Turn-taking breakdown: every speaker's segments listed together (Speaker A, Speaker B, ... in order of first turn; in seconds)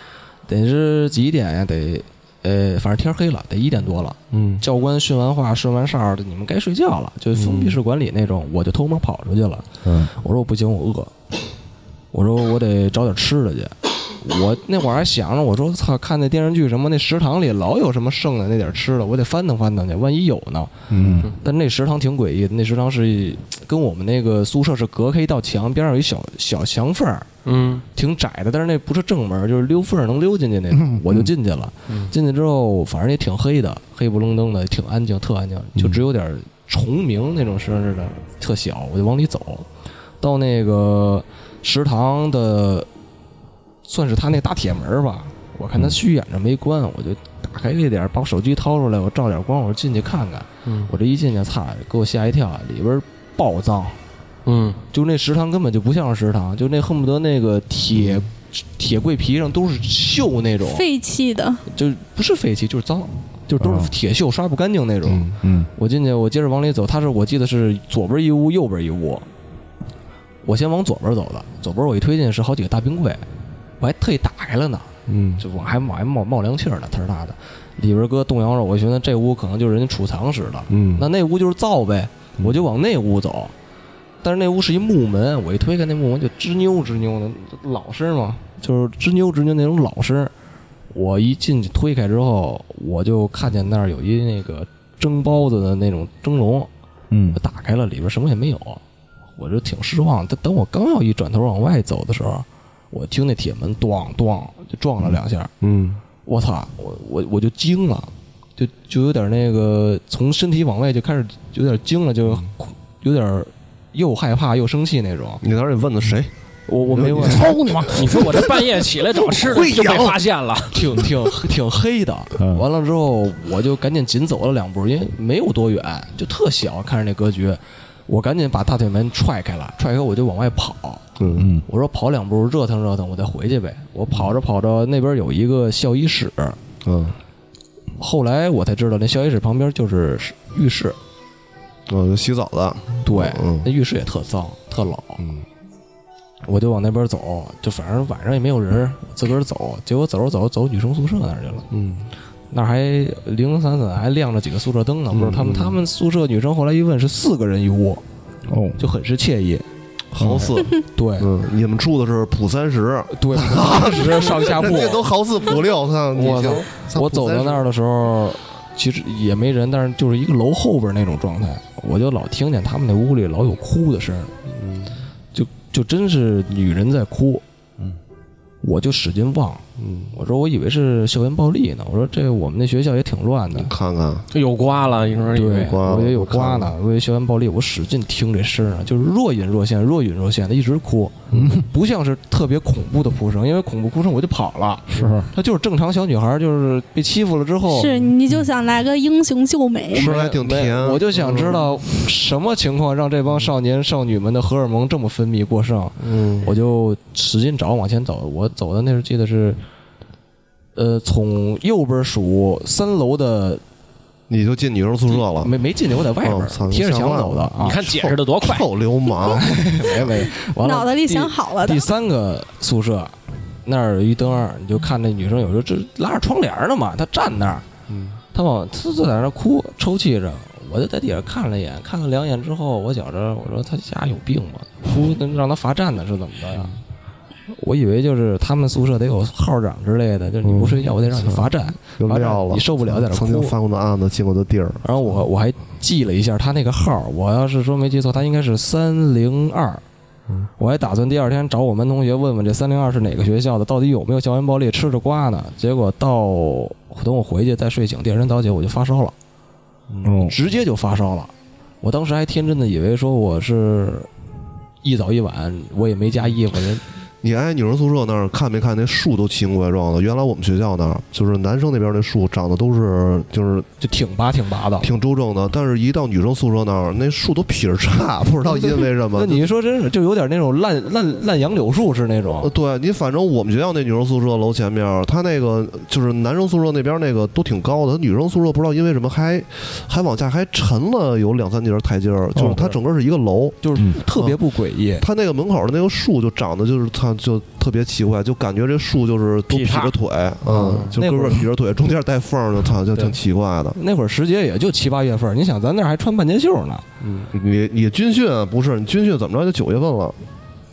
Speaker A: 0.5-11.1, 12.1-27.3, 27.9-39.7, 40.2-42.9, 43.9-54.0, 54.9-60.8, 61.7-69.3, 70.4-73.2, 73.8-83.5, 84.2-90.3, 90.9-96.7, 97.3-98.8, 99.4-105.5, 106.3-115.4, 116.7-117.5, 120.7-136.6, 138.0-141.0, 143.0-145.2, 146.5-151.7, 152.5-158.0, 158.8-159.7, 160.2-161.3, 163.1-165.1, 166.1-174.3, 175.3-177.4, 178.6-183.7, 185.3-198.1, 199.9-209.6, 210.8-213.6, 215.1-217.8, 219.2-227.7, 228.3-236.8, 237.5-243.5, 244.8-249.8, 250.6-259.1, 260.2-261.3, 261.8-264.1, 264.8-266.8, 273.8-274.9, 278.5-282.5, 292.4-292.8, 293.6-295.1, 300.4-301.5, 303.8-306.9
Speaker B: 4.3-4.6, 7.3-7.8, 57.9-58.3, 65.1-65.3, 75.1-75.4, 80.7-81.1, 105.0-106.0, 115.4-116.3, 116.9-120.2, 131.2-131.5, 136.8-137.2, 141.9-143.7, 145.2-145.5, 151.7-152.1, 155.1-155.8, 160.1-167.7, 174.5-175.0, 179.8-180.2, 183.5-184.3, 185.4-186.7, 191.3-191.6, 199.9-201.8, 206.0-206.5, 214.3-215.5, 216.2-219.4, 227.9-228.2, 240.4-244.8, 259.9-260.2, 267.2-273.7, 274.8-279.4, 282.4-293.6, 294.1-294.4, 295.0-303.8, 307.0-310.2
Speaker C: 20.9-21.3, 30.7-31.0, 63.6-63.9, 65.4-65.7, 97.1-97.4, 117.1-118.3, 122.4-122.6, 131.3-131.7, 158.5-158.8, 191.4-191.7, 194.9-195.3, 260.0-260.3
Speaker D: 27.4-27.9, 31.9-32.1, 50.7-50.9, 54.5-54.8, 117.9-120.9, 184.3-185.8, 217.6-218.7, 299.5-300.0, 300.5-300.9
Speaker E: 60.7-61.6, 197.7-200.1, 220.0-221.9